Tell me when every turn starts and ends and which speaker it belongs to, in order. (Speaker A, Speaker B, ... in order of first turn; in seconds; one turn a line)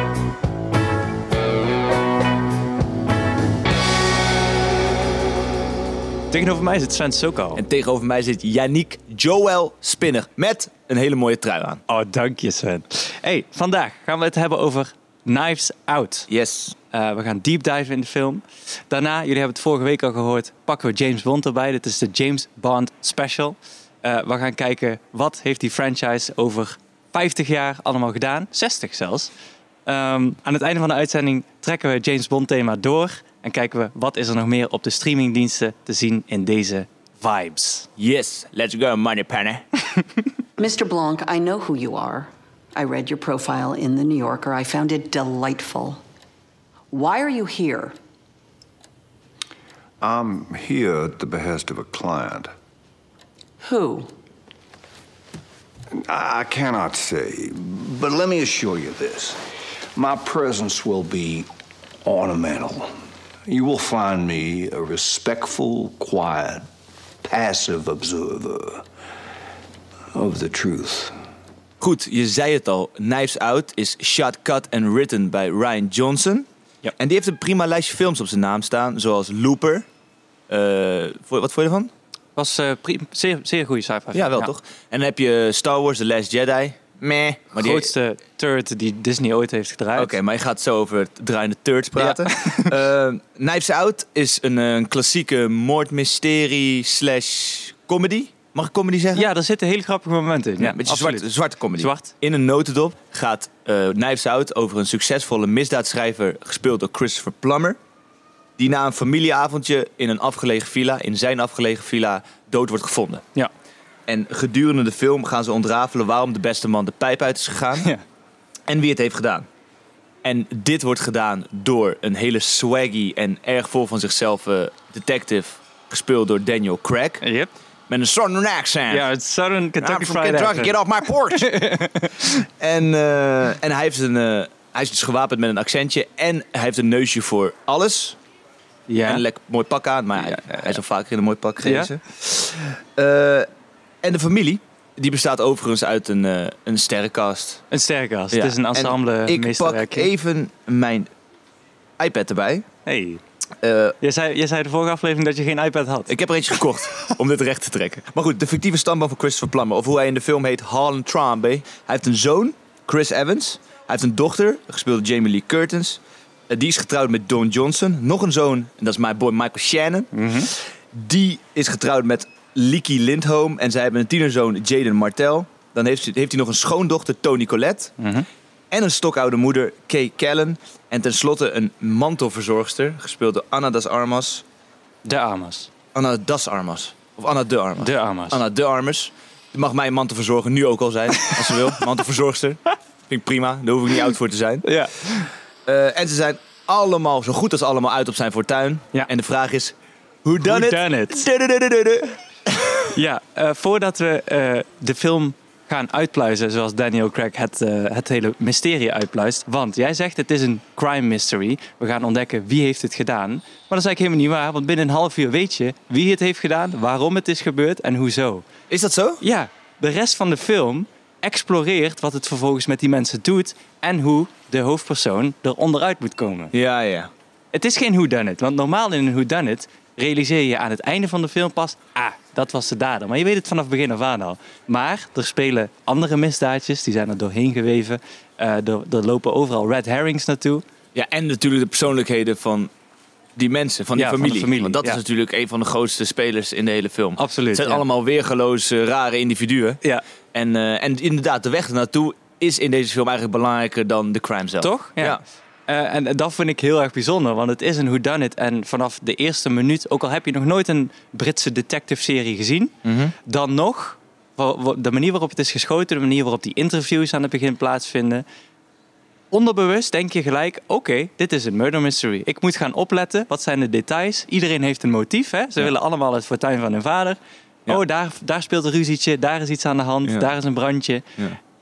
Speaker A: 6.3-7.6
Speaker B: 7.5-11.8
Speaker A: 11.9-16.3
Speaker B: 16.3-16.8
Speaker A: 16.9-29.3
Speaker A: 29.9-37.9
Speaker B: 38.0-39.6
Speaker C: 40.6-46.0
Speaker C: 46.9-48.0
Speaker D: 50.0-52.5
Speaker C: 53.6-54.1
Speaker D: 55.9-59.4
Speaker D: 59.9-61.5
Speaker D: 62.0-62.9
Speaker D: 63.5-66.7
Speaker D: 67.3-68.9
Speaker D: 70.1-71.2
Speaker B: 71.8-76.5
Speaker B: 77.0-79.8
Speaker B: 80.5-81.9
Speaker A: 82.3-84.5
Speaker B: 84.1-87.9
Speaker A: 87.5-90.1
Speaker B: 89.9-99.3
Speaker A: 92.0-92.7
Speaker A: 99.1-102.1
Speaker B: 100.6-107.8
Speaker B: 108.6-113.2
Speaker B: 114.1-117.9
Speaker B: 118.7-119.5
Speaker B: 120.2-127.2
Speaker A: 127.2-127.5
Speaker B: 127.9-129.1
Speaker A: 128.9-130.8
Speaker B: 129.8-131.5
Speaker A: 131.3-132.3
Speaker B: 132.6-138.2
Speaker A: 138.9-139.2
Speaker B: 139.1-143.5
Speaker A: 140.3-140.6
Speaker A: 141.6-141.9
Speaker B: 144.0-147.6
Speaker A: 147.7-150.1
Speaker B: 148.3-151.1
Speaker B: 152.0-152.7
Speaker A: 152.8-153.2
Speaker B: 153.6-153.9
Speaker A: 154.0-156.1
Speaker B: 156.1-177.9
Speaker A: 170.1-170.5
Speaker A: 178.0-178.3
Speaker B: 178.7-184.4
Speaker A: 185.0-185.7
Speaker B: 185.9-194.7
Speaker A: 187.8-188.4
Speaker A: 194.6-195.3
Speaker B: 195.7-202.8
Speaker A: 200.4-201.2
Speaker A: 202.9-218.4
Speaker B: 218.7-219.2
Speaker A: 219.2-226.5
Speaker B: 226.5-227.1
Speaker A: 227.5-240.6
Speaker B: 240.9-242.7
Speaker B: 243.3-249.8
Speaker A: 243.9-245.0
Speaker A: 247.2-247.8
Speaker B: 250.3-255.2
Speaker A: 254.6-262.7
Speaker B: 262.8-263.1
Speaker A: 263.2-268.2
Speaker A: 269.3-281.1